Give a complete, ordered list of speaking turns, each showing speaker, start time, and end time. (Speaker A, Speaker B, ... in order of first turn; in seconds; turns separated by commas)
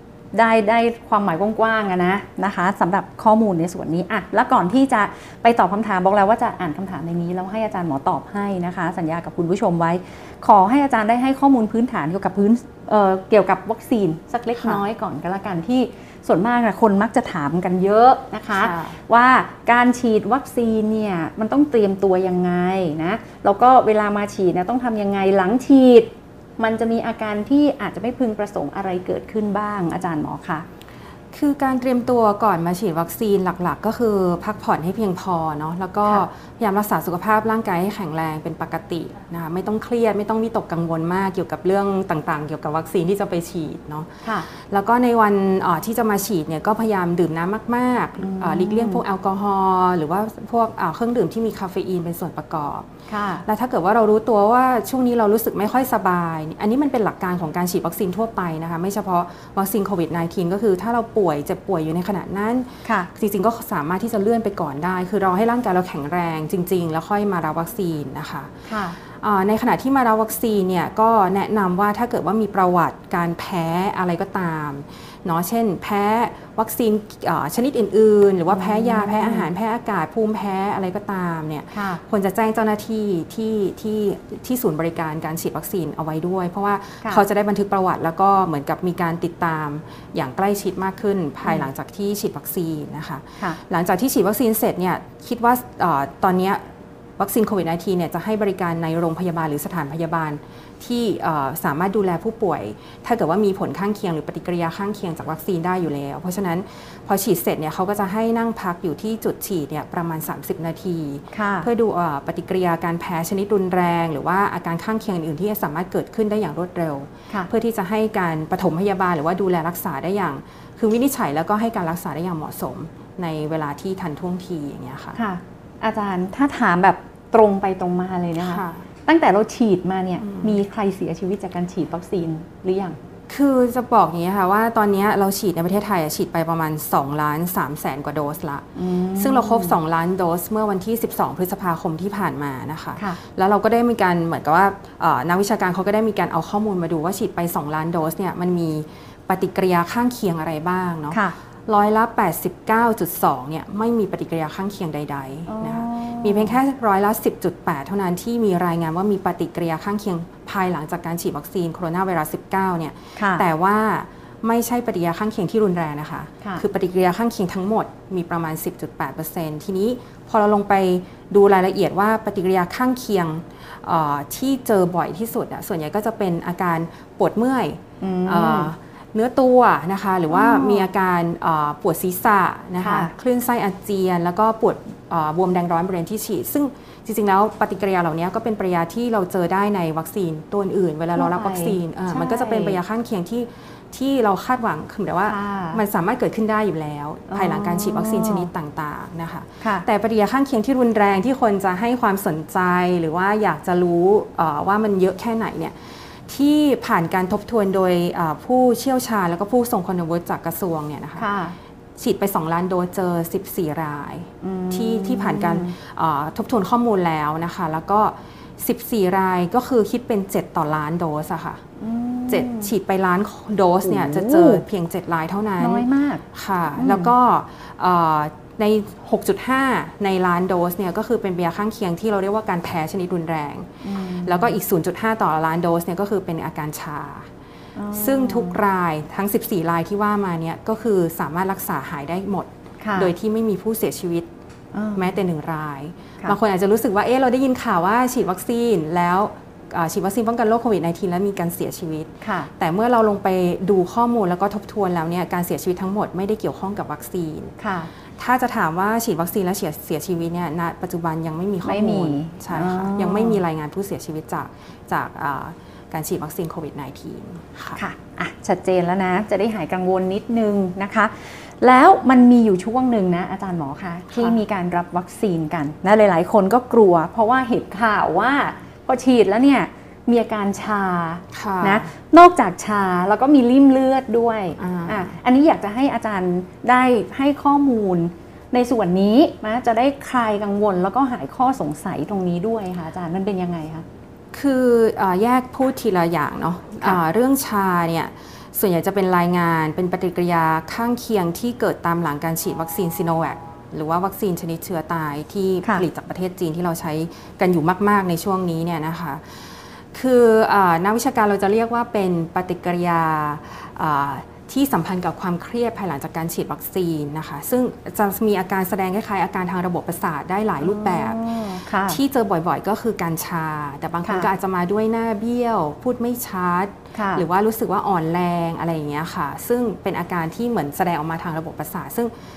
Speaker A: 0.3-30.6, Speaker B: 14.6-14.8, Speaker B: 18.5-19.0, Speaker B: 31.3-52.9, Speaker A: 48.2-49.0, Speaker A: 53.1-53.5, Speaker B: 53.5-68.5, Speaker A: 62.8-63.1, Speaker A: 68.7-69.0, Speaker B: 69.0-96.6, Speaker A: 78.5-79.5, Speaker A: 81.7-82.0, Speaker B: 97.2-125.2, Speaker A: 111.3-111.7, Speaker A: 125.2-133.0, Speaker B: 128.4-128.8, Speaker B: 130.2-130.6, Speaker B: 133.3-211.3, Speaker A: 138.8-139.8, Speaker A: 155.5-156.6, Speaker A: 163.2-163.4, Speaker A: 178.0-178.7, Speaker A: 180.3-180.8, Speaker A: 182.8-183.1, Speaker A: 191.2-192.8, Speaker A: 195.3-195.8, Speaker A: 197.3-198.5, Speaker A: 199.6-199.9, Speaker A: 211.2-211.6, Speaker B: 212.0-221.6, Speaker A: 214.4-215.7, Speaker A: 221.8-222.7, Speaker B: 222.3-237.3, Speaker A: 223.8-224.6, Speaker A: 225.6-226.2, Speaker A: 226.8-227.1, Speaker A: 233.8-234.6, Speaker A: 237.8-238.6, Speaker B: 237.9-244.3, Speaker A: 242.8-243.1, Speaker A: 244.7-245.1, Speaker B: 244.9-257.6, Speaker A: 252.2-252.5, Speaker A: 257.6-257.9, Speaker B: 258.2-267.8, Speaker A: 261.6-263.4, Speaker A: 267.8-293.9, Speaker B: 274.1-274.4, Speaker B: 281.3-281.9, Speaker B: 284.6-285.1, Speaker B: 294.3-332.1, Speaker A: 320.6-322.0, Speaker A: 326.9-327.2